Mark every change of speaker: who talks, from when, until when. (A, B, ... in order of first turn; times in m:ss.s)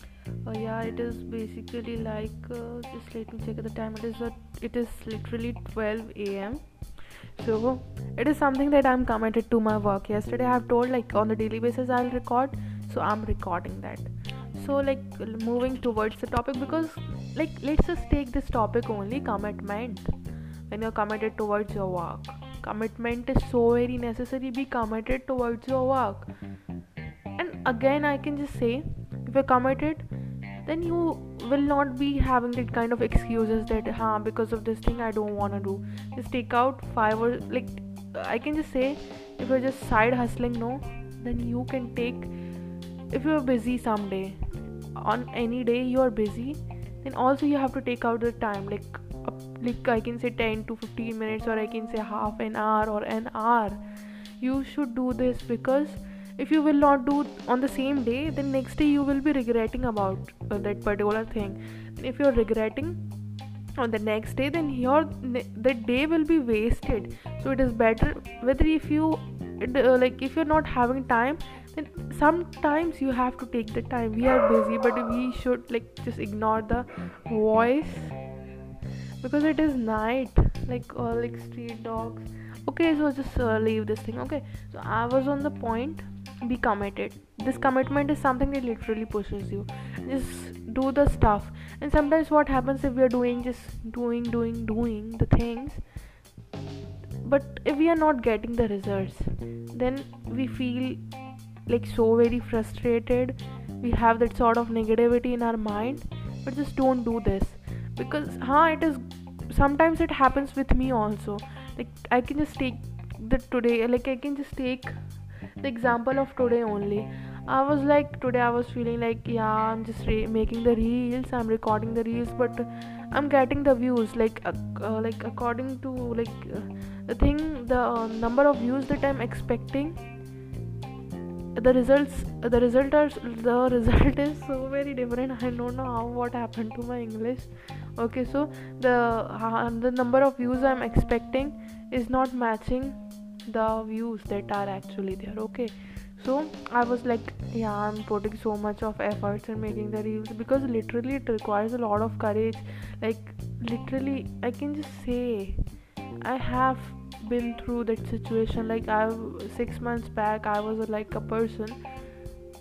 0:00.4-0:20.1 A
0:20.7-0:26.3 A
0:27.4-0:30.1 A
0:30.6-0:42.3 A
0:43.1-0:53.8 A
0:54.4-1:03.0 A
1:03.8-1:18.2 A
1:19.2-1:35.8 A
1:37.2-1:41.1 A
1:41.6-1:55.0 A
1:55.6-2:10.0 A
2:11.5-2:35.6 A
2:36.2-2:41.8 A